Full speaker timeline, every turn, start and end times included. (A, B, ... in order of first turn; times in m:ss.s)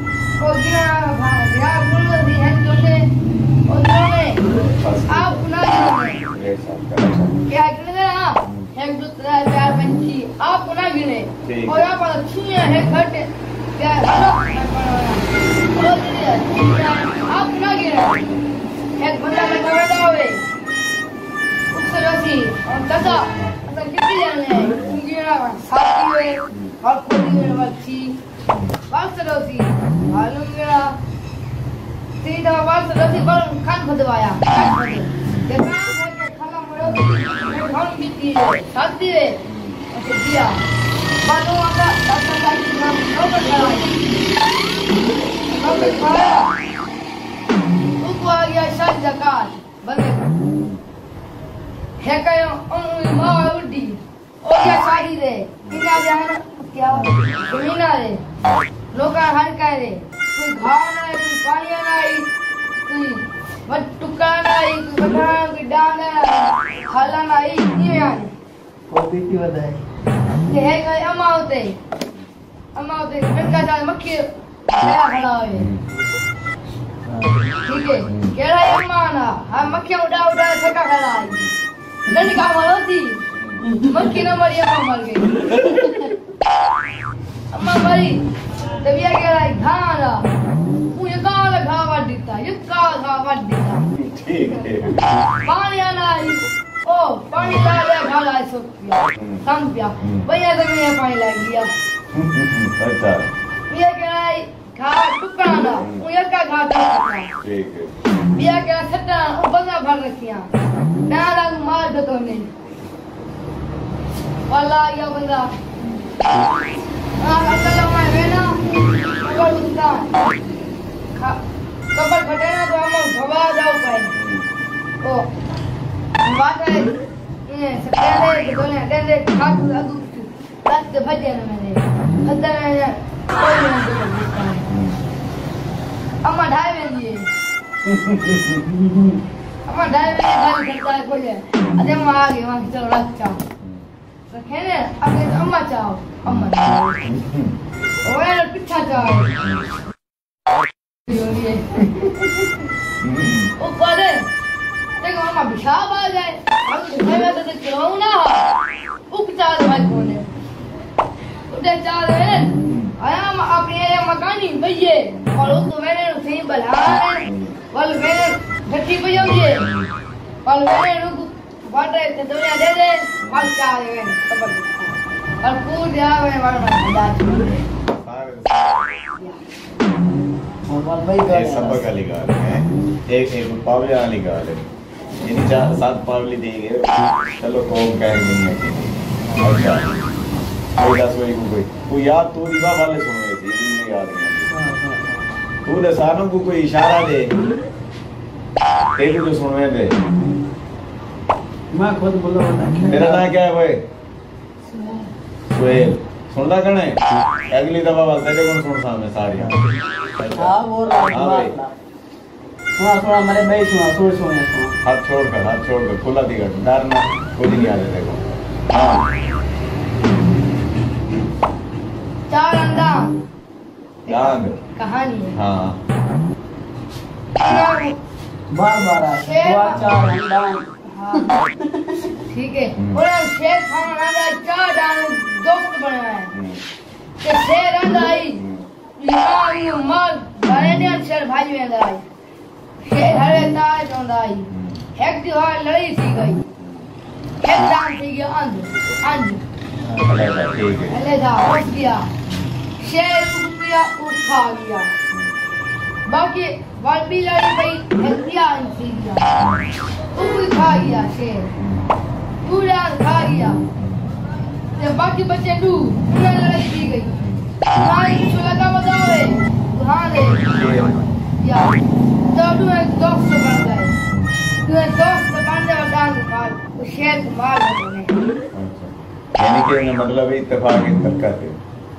0:00.4-0:03.1 A
0:03.7-0:04.5 A
0:04.5-0:05.4 B
0:05.1-0:06.2 A
0:06.3-0:07.4 B
0:07.5-0:18.3 A
0:08.4-0:08.7 B
0:11.4-0:11.9 B
0:19.0-0:20.4 A
0:21.7-0:28.2 A
0:26.5-0:26.8 B
0:28.9-0:31.0 A
0:32.2-0:40.6 A
0:35.2-0:35.6 B
0:36.8-0:37.1 B
0:39.5-0:39.8 B
0:41.2-0:44.1 A
0:45.1-0:46.3 B
0:45.5-0:46.5 A
0:48.0-0:50.5 A
0:50.6-0:50.8 B
0:52.0-0:58.2 A
0:55.6-0:56.0 B
0:58.9-1:02.3 A
1:02.8-1:08.3 A
1:08.9-1:09.8 C
1:10.4-1:11.8 A
1:12.8-1:15.7 A
1:15.6-1:15.8 B
1:17.6-1:21.4 A
1:18.1-1:18.4 B
1:22.1-1:23.2 A
1:23.3-1:23.8 B
1:23.8-1:25.9 A
1:27.5-1:28.2 A
1:28.8-1:30.3 A
1:30.9-1:33.9 A
1:33.9-1:35.2 B
1:35.4-1:41.7 A
1:37.4-1:37.7 B
1:39.2-1:39.5 B
1:40.0-1:40.3 B
1:42.1-1:43.3 B
1:43.7-1:47.3 A
1:45.8-1:46.1 B
1:47.4-1:48.0 B
1:48.3-1:50.5 A
1:51.1-1:52.5 A
1:54.5-1:55.5 A
1:57.2-1:58.6 A
1:59.2-2:00.2 A
2:01.2-2:01.4 A
2:01.9-2:04.2 A
2:04.2-2:04.5 B
2:05.0-2:05.3 A
2:06.2-2:14.7 A
2:14.7-2:15.0 B
2:16.2-2:17.3 A
2:18.0-2:19.2 C
2:19.7-2:23.4 A
2:24.3-2:27.1 A
2:26.2-2:27.6 B
2:28.0-2:29.4 A
2:29.4-2:29.7 B
2:31.1-2:31.9 A
2:33.0-2:33.5 B
2:33.6-2:34.3 A
2:35.0-2:38.5 A
2:39.1-2:40.3 A
2:41.5-2:49.7 A
2:42.6-2:43.0 B
2:47.2-2:47.6 B
2:49.1-2:49.9 B
2:50.4-2:57.6 A
2:53.2-2:53.5 B
2:58.0-2:59.1 B
3:00.7-3:01.9 C
3:01.3-3:04.7 B
3:05.2-3:10.0 B
3:10.8-3:14.6 B
3:14.6-3:15.2 C
3:15.6-3:17.3 B
3:19.0-3:20.0 B
3:21.7-3:23.2 C
3:22.9-3:23.8 B
3:24.7-3:25.1 C
3:25.5-3:29.6 B
3:30.2-3:30.6 B
3:30.3-3:31.7 C
3:31.1-3:31.6 B
3:32.8-3:34.8 C
3:34.8-3:39.1 B
3:42.3-3:43.2 A
3:44.1-3:44.6 B
3:44.1-3:45.4 A
3:45.3-3:45.8 B
3:47.4-3:48.0 A
3:48.5-3:52.1 C
3:49.2-3:49.8 A
3:50.9-3:51.4 A
3:52.3-3:56.3 A
3:52.8-3:53.0 B
3:56.3-3:56.6 B
3:57.2-3:58.4 A
3:58.4-3:58.7 B
3:59.0-4:02.0 A
4:02.8-4:06.5 A
4:04.5-4:04.9 B
4:06.6-4:06.9 B
4:07.4-4:09.4 A
4:09.9-4:11.0 B
4:10.9-4:12.1 A
4:12.8-4:14.9 A
4:16.1-4:19.3 A
4:19.4-4:19.7 B
4:20.1-4:21.5 A
4:21.6-4:21.9 B
4:22.4-4:23.6 A
4:23.8-4:24.1 B
4:24.8-4:27.2 A
4:27.2-4:27.5 B
4:27.7-4:30.5 A
4:30.3-4:31.1 B
4:31.4-4:31.8 A
4:32.3-4:34.0 A
4:34.0-4:34.4 B
4:34.6-4:38.2 A
4:38.5-4:41.6 B